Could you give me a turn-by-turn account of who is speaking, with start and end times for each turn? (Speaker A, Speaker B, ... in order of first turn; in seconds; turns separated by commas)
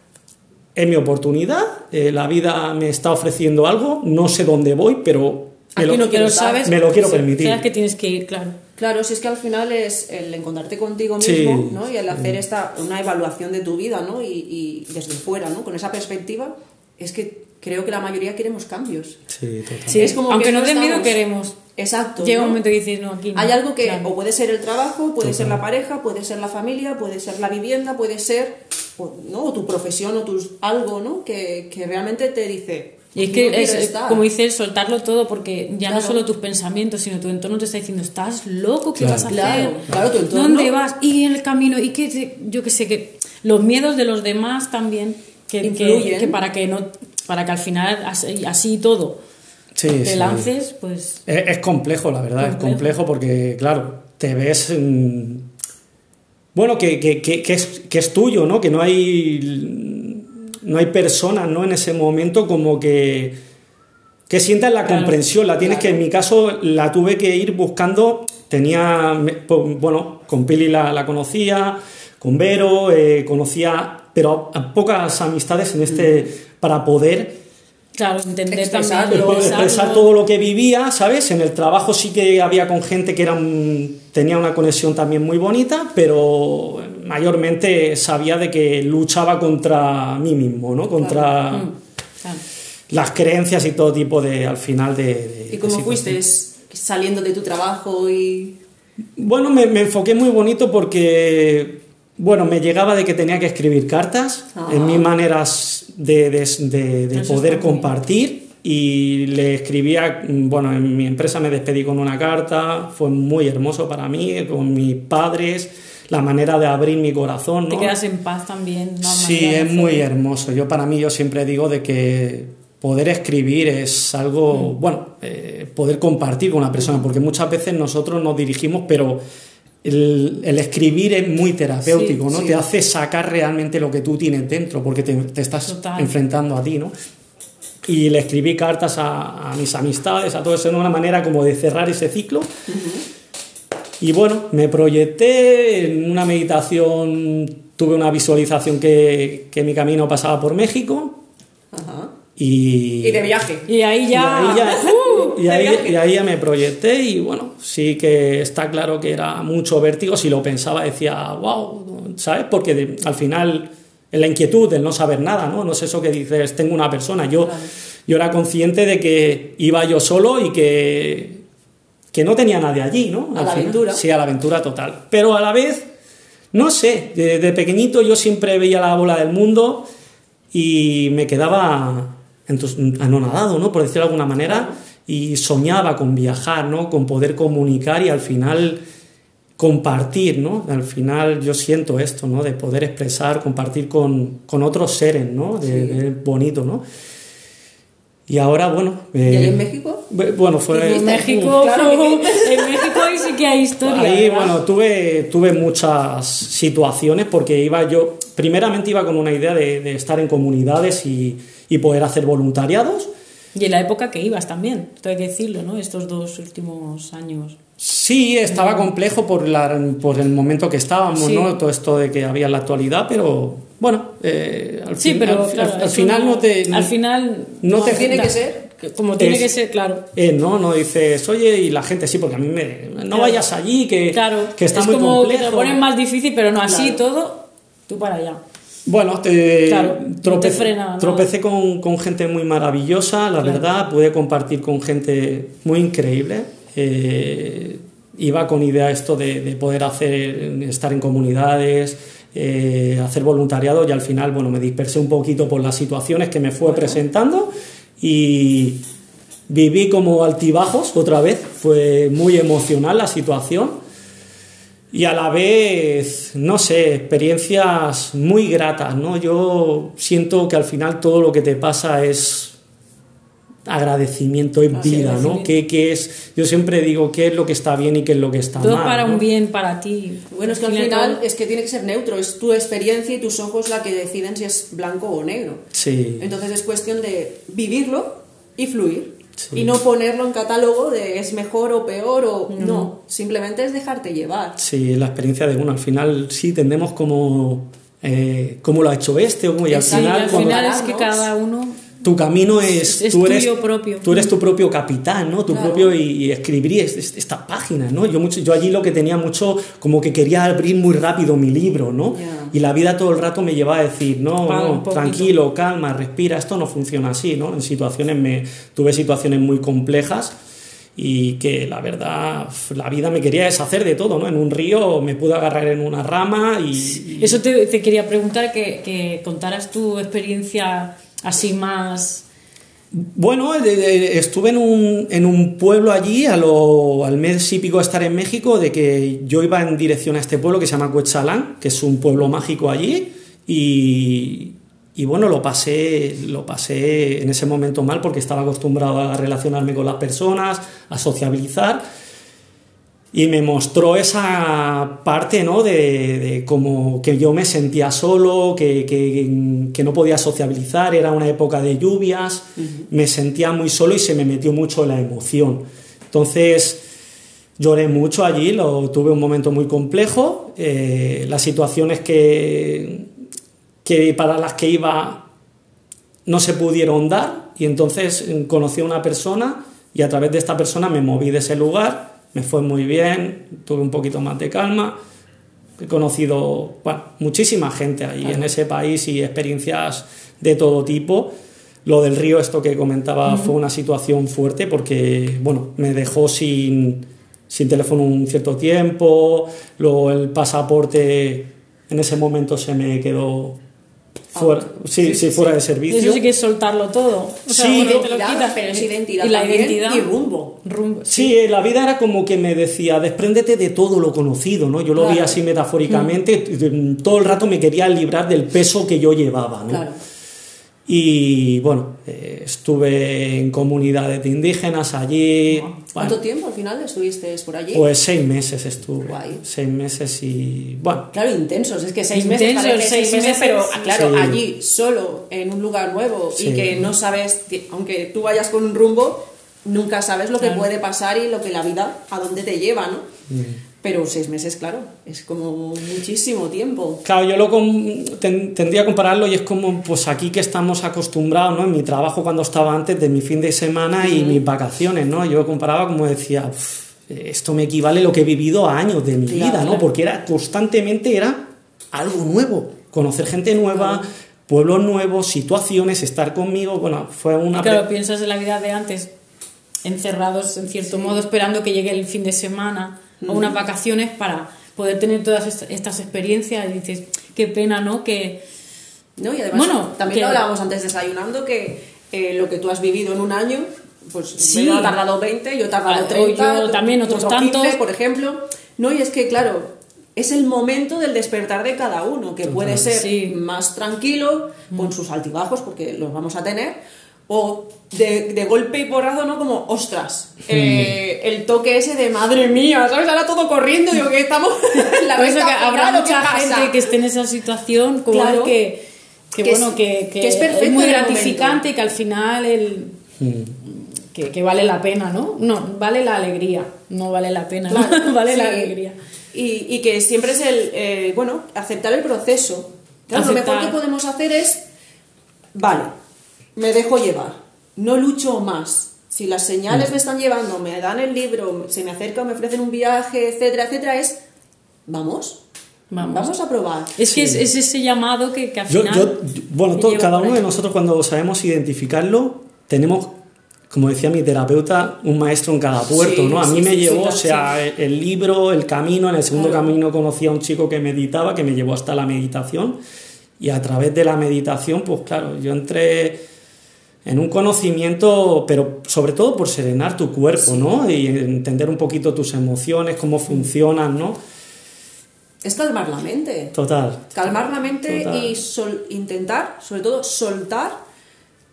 Speaker A: 0.7-6.1, Speaker B: 5.8-6.7, Speaker C: 5.9-8.6, Speaker A: 6.6-7.6, Speaker B: 8.8-19.2, Speaker A: 11.2-12.4, Speaker A: 19.3-20.1, Speaker C: 19.9-21.6, Speaker B: 19.9-21.2, Speaker B: 21.8-22.6, Speaker C: 22.2-24.1, Speaker B: 23.3-34.2, Speaker A: 25.2-25.6, Speaker C: 33.1-49.2, Speaker B: 35.9-36.2, Speaker A: 39.0-39.5, Speaker B: 39.3-40.7, Speaker B: 45.6-46.4, Speaker A: 49.7-50.5, Speaker C: 50.0-51.2, Speaker A: 51.3-55.5, Speaker C: 52.4-52.9, Speaker A: 56.5-63.4, Speaker A: 64.3-77.4, Speaker C: 64.8-65.2, Speaker B: 65.6-66.0, Speaker B: 75.9-76.2, Speaker C: 78.0-80.1, Speaker B: 78.5-79.6, Speaker A: 79.1-91.7, Speaker B: 91.0-91.3, Speaker C: 91.5-92.4, Speaker A: 92.9-96.2, Speaker B: 95.5-98.6, Speaker A: 99.2-117.9, Speaker B: 104.5-105.1, Speaker C: 107.1-107.9, Speaker C: 117.7-120.0, Speaker A: 119.0-129.2, Speaker A: 129.8-136.9, Speaker C: 131.9-132.2, Speaker B: 132.3-132.6, Speaker C: 135.7-136.1, Speaker A: 137.8-142.5, Speaker B: 142.7-143.0, Speaker A: 144.0-151.2, Speaker B: 151.7-152.1, Speaker A: 152.4-153.3, Speaker B: 153.0-153.7, Speaker C: 153.7-155.4, Speaker A: 154.1-171.4, Speaker B: 154.6-156.0, Speaker B: 167.4-167.7, Speaker A: 172.1-175.9, Speaker B: 173.3-174.0, Speaker A: 176.5-179.9, Speaker A: 180.5-188.8, Speaker B: 184.4-184.7, Speaker A: 189.6-196.8, Speaker B: 195.6-196.0, Speaker A: 198.3-201.5, Speaker B: 199.2-200.1, Speaker C: 200.7-204.6, Speaker B: 200.8-203.2, Speaker A: 203.8-213.1, Speaker C: 213.5-217.6, Speaker A: 217.8-226.9, Speaker C: 218.5-218.8, Speaker C: 221.1-221.5, Speaker C: 225.0-230.0, Speaker A: 227.6-228.3, Speaker B: 227.8-228.6, Speaker A: 229.2-229.5, Speaker A: 230.1-235.8, Speaker C: 233.1-233.4, Speaker C: 234.1-238.4, Speaker B: 236.6-237.0, Speaker A: 238.8-258.8, Speaker C: 239.7-241.3, Speaker C: 256.7-257.0, Speaker A: 259.5-263.8, Speaker A: 264.9-272.6, Speaker A: 273.6-279.2, Speaker C: 274.7-275.5, Speaker C: 278.6-281.2, Speaker B: 280.3-285.6, Speaker A: 285.7-286.3, Speaker B: 286.2-294.6, Speaker A: 289.4-289.8, Speaker C: 292.5-292.9, Speaker A: 294.6-300.7, Speaker B: 299.7-301.2, Speaker C: 299.9-301.8, Speaker A: 302.0-320.3, Speaker C: 302.8-304.3, Speaker B: 305.5-305.9, Speaker B: 312.1-312.5, Speaker C: 314.4-315.3, Speaker A: 320.9-327.4, Speaker C: 326.8-332.2, Speaker A: 332.9-351.8, Speaker A: 353.1-366.8, Speaker B: 362.6-362.8, Speaker A: 367.6-373.1, Speaker A: 373.8-375.2, Speaker A: 376.2-385.0, Speaker A: 385.8-391.3, Speaker A: 391.8-403.6, Speaker C: 393.2-393.5, Speaker B: 404.3-405.4, Speaker A: 404.3-406.2, Speaker C: 405.9-410.1, Speaker A: 407.5-408.1, Speaker B: 407.7-410.6, Speaker C: 410.6-411.3, Speaker A: 411.1-419.8, Speaker B: 414.9-415.4, Speaker C: 415.9-416.1, Speaker B: 419.7-420.0, Speaker A: 420.9-426.2, Speaker B: 425.9-427.9, Speaker A: 427.7-431.1, Speaker B: 429.1-429.4, Speaker B: 431.1-443.1, Speaker C: 432.1-433.8, Speaker A: 433.9-434.4, Speaker A: 436.3-436.9, Speaker C: 440.4-440.6, Speaker A: 443.3-443.6, Speaker B: 443.8-447.0, Speaker A: 447.0-467.8, Speaker B: 454.0-454.4, Speaker B: 459.3-459.8, Speaker C: 467.5-469.1, Speaker C: 469.8-478.4, Speaker B: 470.9-471.1, Speaker B: 473.2-473.6, Speaker B: 479.2-506.9, Speaker C: 479.5-480.4, Speaker C: 484.4-485.0, Speaker C: 485.9-487.8, Speaker A: 492.4-492.9, Speaker C: 492.9-493.4, Speaker A: 500.5-500.9, Speaker C: 505.1-513.0, Speaker B: 508.1-508.6, Speaker B: 509.4-511.6, Speaker A: 513.2-513.6, Speaker C: 513.7-519.0, Speaker B: 517.7-518.7, Speaker B: 519.3-524.6, Speaker C: 523.1-523.8, Speaker B: 525.5-525.9, Speaker B: 526.5-534.2, Speaker B: 534.9-535.4, Speaker C: 535.9-536.3, Speaker B: 536.0-537.0, Speaker C: 537.0-539.2, Speaker A: 537.0-537.5, Speaker A: 538.7-543.1, Speaker C: 539.7-540.5, Speaker A: 543.7-552.8, Speaker B: 545.9-547.5, Speaker B: 549.4-549.6, Speaker A: 553.4-556.2, Speaker A: 557.0-564.2, Speaker B: 560.4-560.8, Speaker B: 565.4-566.5, Speaker A: 566.5-567.3, Speaker B: 567.1-570.8, Speaker A: 567.9-568.4